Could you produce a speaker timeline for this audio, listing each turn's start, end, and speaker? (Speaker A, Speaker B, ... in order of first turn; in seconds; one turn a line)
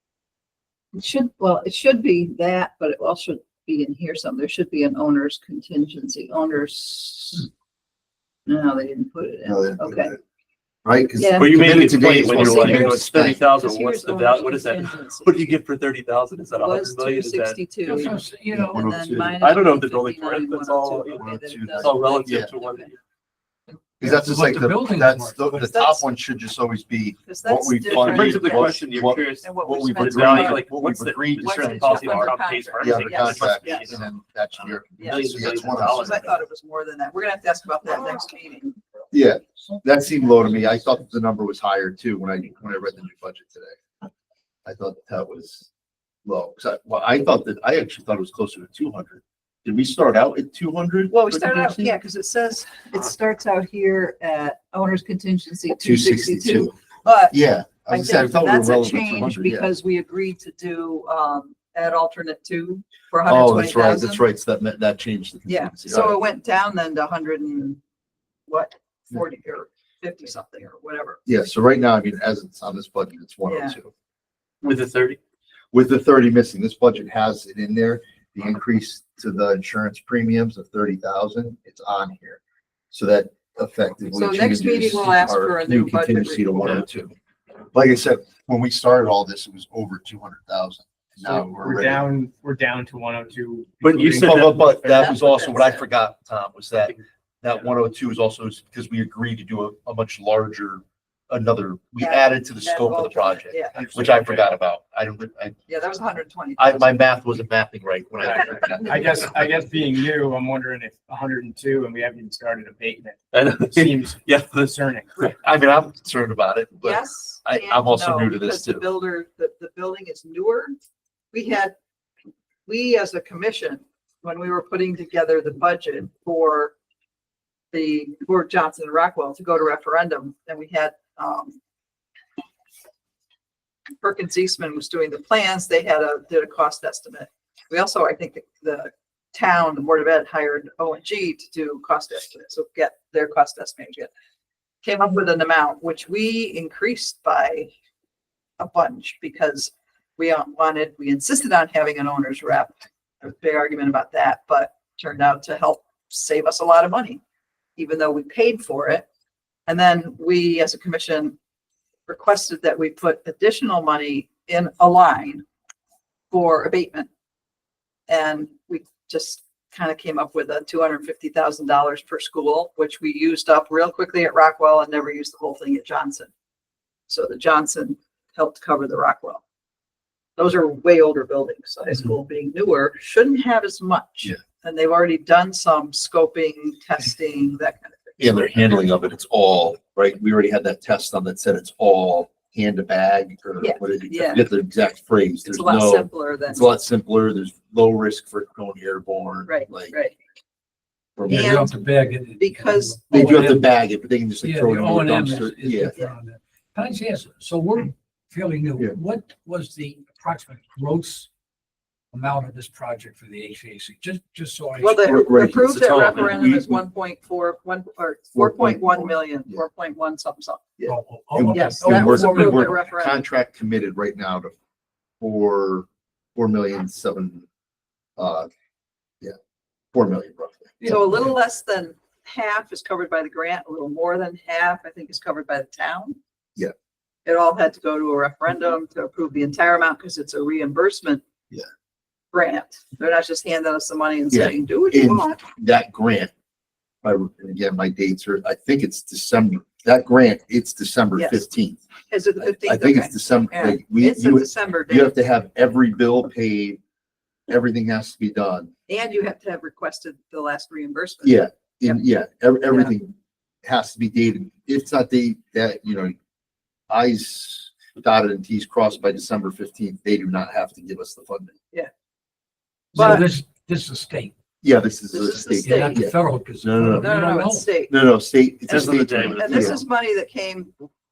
Speaker A: 0.9-7.5
Speaker A: 8.5-10.1
Speaker B: 9.4-10.2
Speaker B: 10.8-13.4
Speaker A: 11.2-15.6
Speaker C: 11.4-17.8
Speaker A: 16.5-22.9
Speaker D: 17.9-18.8
Speaker B: 18.5-19.4
Speaker C: 19.4-22.9
Speaker B: 21.1-22.6
Speaker D: 24.0-25.9
Speaker B: 24.0-36.2
Speaker A: 25.6-26.1
Speaker A: 27.3-28.9
Speaker C: 27.9-36.4
Speaker A: 29.4-30.7
Speaker A: 31.4-33.9
Speaker A: 35.0-38.8
Speaker B: 39.1-43.8
Speaker B: 44.6-45.7
Speaker B: 46.2-51.9
Speaker A: 51.1-64.2
Speaker B: 55.8-56.8
Speaker B: 57.3-59.7
Speaker B: 63.2-66.2
Speaker A: 65.5-67.8
Speaker A: 68.5-71.2
Speaker B: 71.3-73.9
Speaker A: 73.5-73.8
Speaker C: 74.6-75.2
Speaker B: 75.7-87.1
Speaker A: 84.1-86.8
Speaker B: 87.7-92.0
Speaker E: 91.2-95.2
Speaker C: 93.8-94.5
Speaker B: 94.2-105.6
Speaker A: 94.9-95.8
Speaker A: 102.0-103.8
Speaker C: 103.9-104.3
Speaker A: 105.7-107.0
Speaker B: 106.6-109.6
Speaker A: 108.2-109.3
Speaker E: 108.3-115.2
Speaker C: 113.3-114.7
Speaker B: 115.2-118.9
Speaker A: 116.8-120.7
Speaker A: 121.3-121.7
Speaker A: 122.7-126.7
Speaker A: 127.7-131.6
Speaker A: 134.0-144.1
Speaker A: 144.8-147.7
Speaker A: 148.6-157.2
Speaker A: 157.8-159.1
Speaker A: 159.7-161.4
Speaker A: 162.1-165.4
Speaker A: 166.3-167.1
Speaker A: 168.1-176.3
Speaker A: 177.1-179.4
Speaker A: 180.4-188.8
Speaker B: 188.2-200.0
Speaker A: 193.6-194.5
Speaker A: 195.4-196.7
Speaker A: 199.5-200.2
Speaker B: 201.2-201.7
Speaker D: 201.3-203.7
Speaker A: 201.3-201.8
Speaker A: 202.4-203.0
Speaker B: 203.1-206.0
Speaker D: 204.4-211.3
Speaker D: 212.1-215.3
Speaker A: 214.8-220.7
Speaker B: 215.0-216.8
Speaker C: 215.6-216.4
Speaker B: 218.3-219.7
Speaker B: 220.8-224.5
Speaker D: 220.8-222.8
Speaker A: 221.5-223.2
Speaker B: 225.2-227.5
Speaker B: 228.2-228.5
Speaker B: 229.9-231.0
Speaker A: 230.8-236.2
Speaker A: 237.2-241.2
Speaker A: 242.3-245.4
Speaker B: 244.3-246.3
Speaker B: 247.0-251.8
Speaker A: 251.2-251.4
Speaker A: 252.1-255.2
Speaker B: 252.4-256.8
Speaker B: 257.5-258.7
Speaker A: 258.9-262.0
Speaker B: 261.2-266.1
Speaker B: 266.9-271.6
Speaker D: 272.9-274.3
Speaker A: 272.9-273.3
Speaker B: 274.6-277.2
Speaker A: 275.1-276.1
Speaker D: 275.6-277.8
Speaker A: 276.9-277.9
Speaker B: 277.9-279.8
Speaker C: 278.7-279.8
Speaker A: 279.4-280.9